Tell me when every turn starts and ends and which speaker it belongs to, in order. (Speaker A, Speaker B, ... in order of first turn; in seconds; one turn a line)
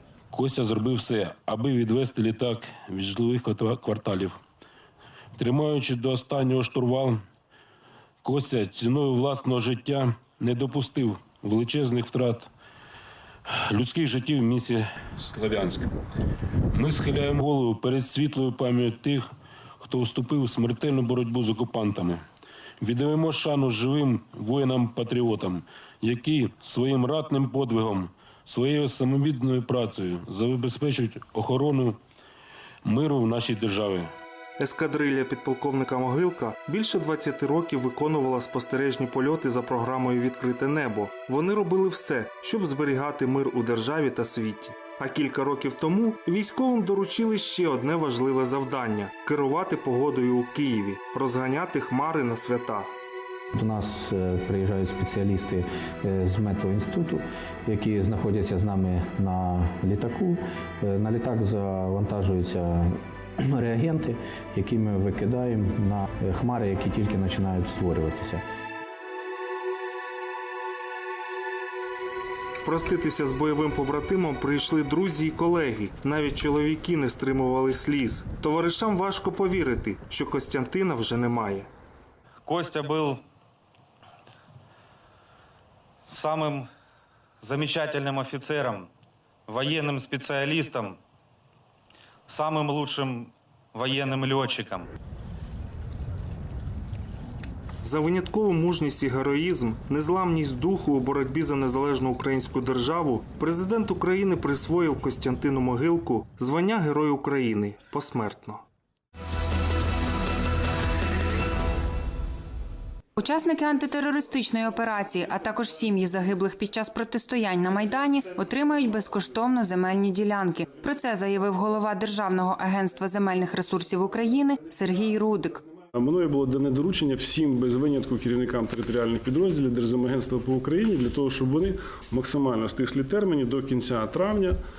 Speaker A: 0.3-4.4
Speaker A: 5.3-7.2
Speaker A: 8.2-12.5
Speaker A: 13.5-15.9
Speaker A: 16.7-19.3
Speaker A: 19.8-22.2
Speaker A: 22.8-32.0
Speaker A: 32.8-34.1
Speaker B: 34.6-52.9
Speaker C: 53.5-62.9
Speaker C: 63.5-68.4
Speaker B: 72.6-81.7
Speaker D: 82.5-83.2
Speaker D: 86.0-86.7
Speaker D: 87.4-88.9
Speaker D: 89.5-91.0
Speaker D: 92.3-94.9
Speaker B: 97.8-108.6
Speaker E: 113.2-125.6
Speaker F: 125.9-134.6